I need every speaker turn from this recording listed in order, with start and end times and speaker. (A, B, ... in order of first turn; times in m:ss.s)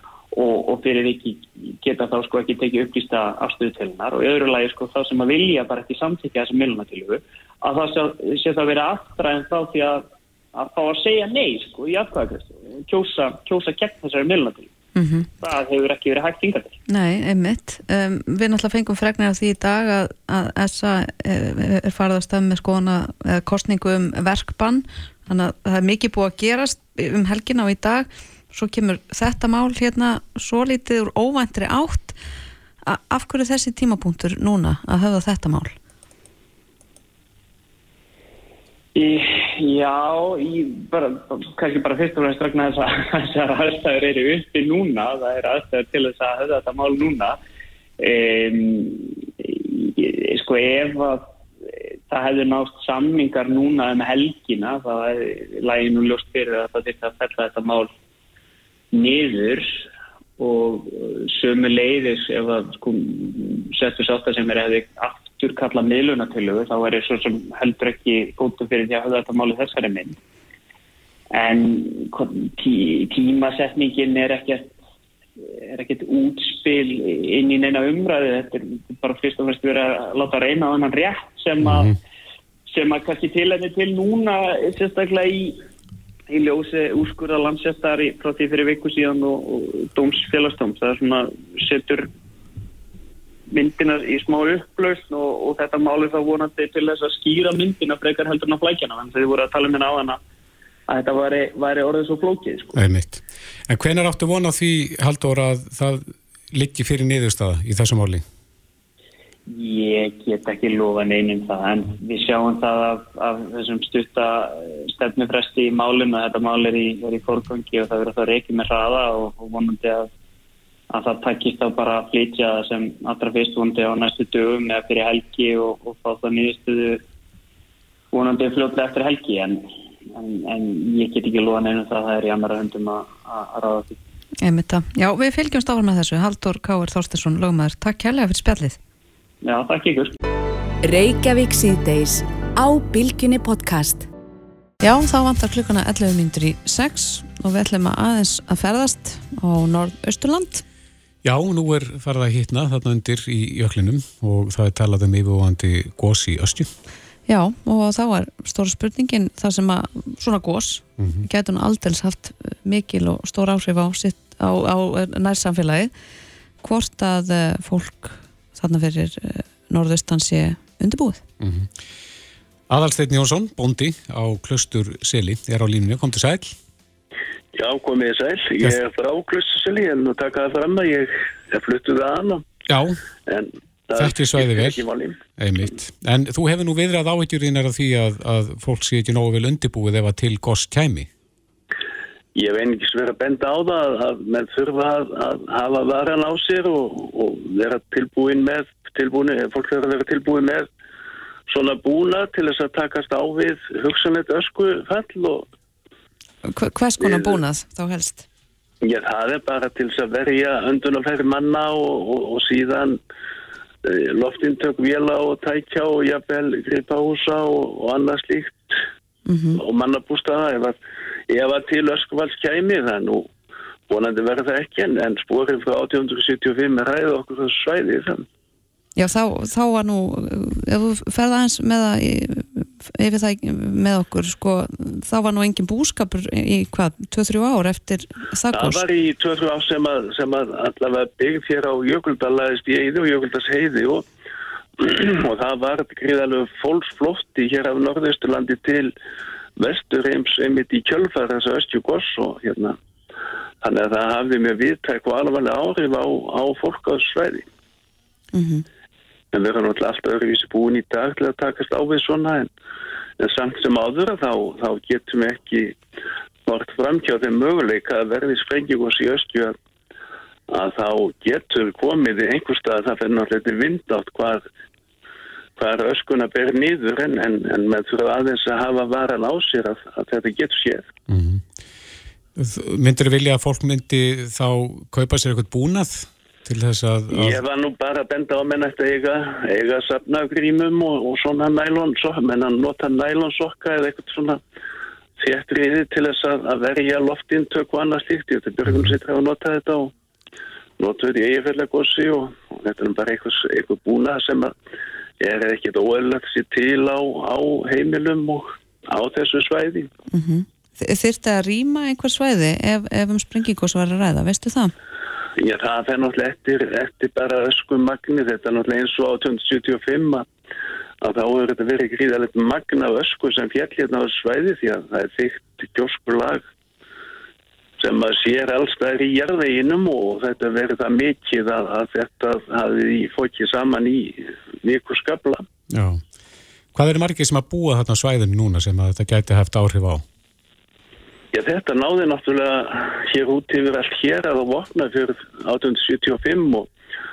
0:00.3-0:14.7 A
0:15.0-0:15.3 B
0:15.4-0:16.8 A
0:16.9-0:32.2 B
0:32.8-0:35.7 B
0:39.0-0:47.4 A
0:48.0-0:51.3 A
0:52.1-0:57.9 A
0:58.9-0:59.8 A
1:00.4-1:10.2 A
1:11.3-1:14.7 A
1:15.4-1:21.9 A
1:21.6-1:21.9 C
1:22.7-1:25.6 A
1:26.3-1:32.1 A
1:33.5-1:40.2 A
1:40.9-1:42.8 A
1:42.7-1:48.2 C
1:49.5-2:00.1 A
2:00.9-2:07.0 A
2:08.1-2:14.0 A
2:14.4-2:18.8 B
2:19.4-2:20.1 A
2:20.8-2:24.1 D
2:24.8-2:30.6 B
2:31.2-2:36.7 C
2:37.3-2:45.9 B
2:41.0-2:41.2 C
2:46.6-2:51.2 B
2:51.4-2:51.7 C
2:52.7-2:56.5 C
2:57.5-3:02.5 E
3:02.7-3:03.0 C
3:03.3-3:05.2 E
3:04.0-3:04.8 C
3:05.4-3:11.1 C
3:12.3-3:20.7 E
3:21.5-3:25.4 E
3:26.5-3:28.2 B
3:27.0-3:27.4 E
3:28.8-3:33.0 E
3:33.8-3:38.7 E
3:39.2-3:39.6 B
3:39.6-3:40.8 E
3:41.3-3:43.3 E
3:43.9-3:48.2 E
3:49.0-3:58.8 B
3:58.5-4:04.0 E
4:04.8-4:08.9 E
4:09.6-4:12.8 E
4:13.6-4:17.5 E
4:18.3-4:18.6 B
4:19.3-4:22.5 E
4:23.2-4:25.8 E
4:26.4-4:29.5 E
4:30.5-4:34.4 E
4:35.6-4:40.9 E
4:41.1-4:41.4 C
4:42.4-4:47.4 C
4:47.1-4:54.4 E
4:55.2-4:59.9 E
5:00.8-5:04.5 E
5:05.2-5:09.9 E
5:10.1-5:14.7 B
5:15.4-5:20.3 E
5:21.0-5:26.4 E
5:27.8-5:35.4 E
5:35.7-5:36.0 C
5:36.7-5:40.0 C
5:41.3-5:46.7 E